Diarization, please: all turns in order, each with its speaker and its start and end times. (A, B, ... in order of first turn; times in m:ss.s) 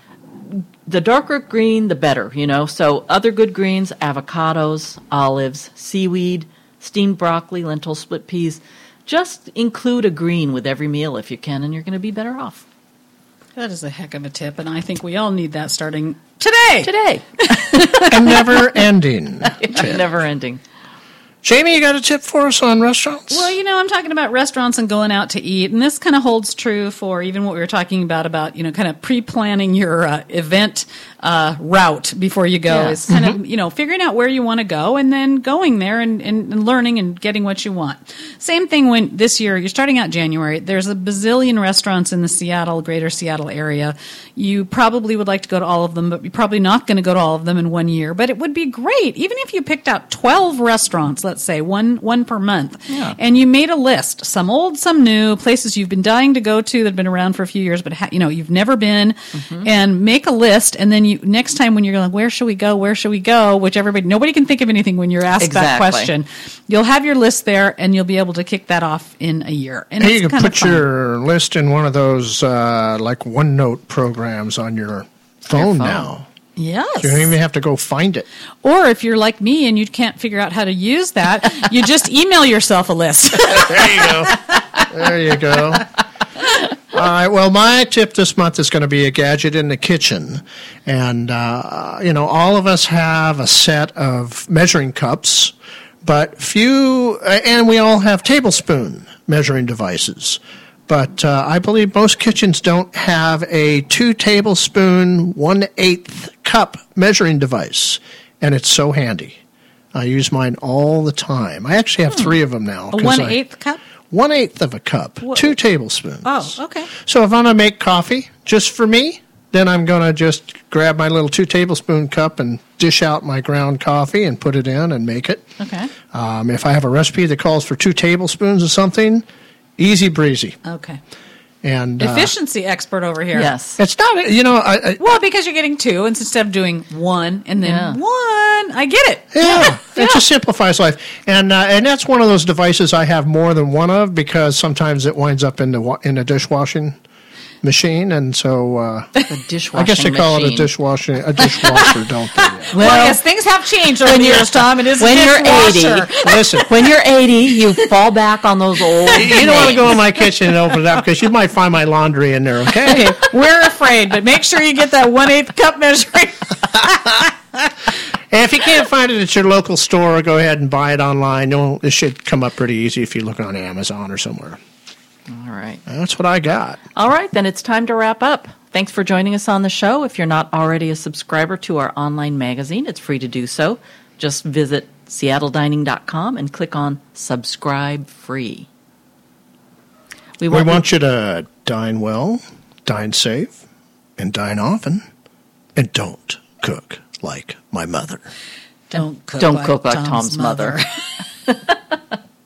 0:00.5-0:12.6 A
0:13.6-0:18.6 B
0:16.8-0:18.5 A
0:18.1-0:20.1 C
0:19.5-0:20.6 A
0:21.4-0:23.6 C
0:23.3-1:10.8 B
0:32.7-0:33.3 A
0:52.9-0:53.2 A
0:59.4-0:59.7 A
1:05.4-1:06.1 A
1:10.0-1:16.3 C
1:15.5-1:16.1 A
1:16.6-1:17.3 B
1:17.0-1:18.3 C
1:18.6-1:24.3 B
1:23.5-1:24.3 C
1:24.9-1:25.9 C
1:26.9-1:49.4 C
1:49.9-1:53.4 C
1:52.9-1:53.8 B
1:54.1-2:05.5 C
1:55.2-1:55.5 B
1:56.2-1:56.9 B
2:05.6-2:05.9 B
2:06.1-2:09.3 C
2:09.8-2:10.6 C
2:10.6-2:11.0 B
2:11.6-2:12.3 C
2:12.0-2:13.5 B
2:13.3-2:13.8 A
2:13.8-2:15.2 C
2:15.0-2:20.2 B
2:17.6-2:18.0 A
2:19.3-2:27.0 C
2:27.6-2:29.1 C
2:29.3-2:30.7 A
2:29.7-2:33.2 C
2:31.6-2:36.6 B
2:32.7-2:33.2 A
2:34.0-2:39.9 A
2:36.2-2:36.7 C
2:39.1-2:39.9 B
2:39.1-2:43.2 C
2:42.8-2:47.2 B
2:48.3-2:54.6 C
2:55.3-2:55.8 A
2:55.9-2:56.8 C
2:57.0-3:08.7 A
3:10.4-3:10.8 A
3:10.5-3:13.6 C
3:14.2-3:15.0 C
3:15.8-3:18.3 C
3:18.9-3:20.8 B
3:18.9-3:20.8 A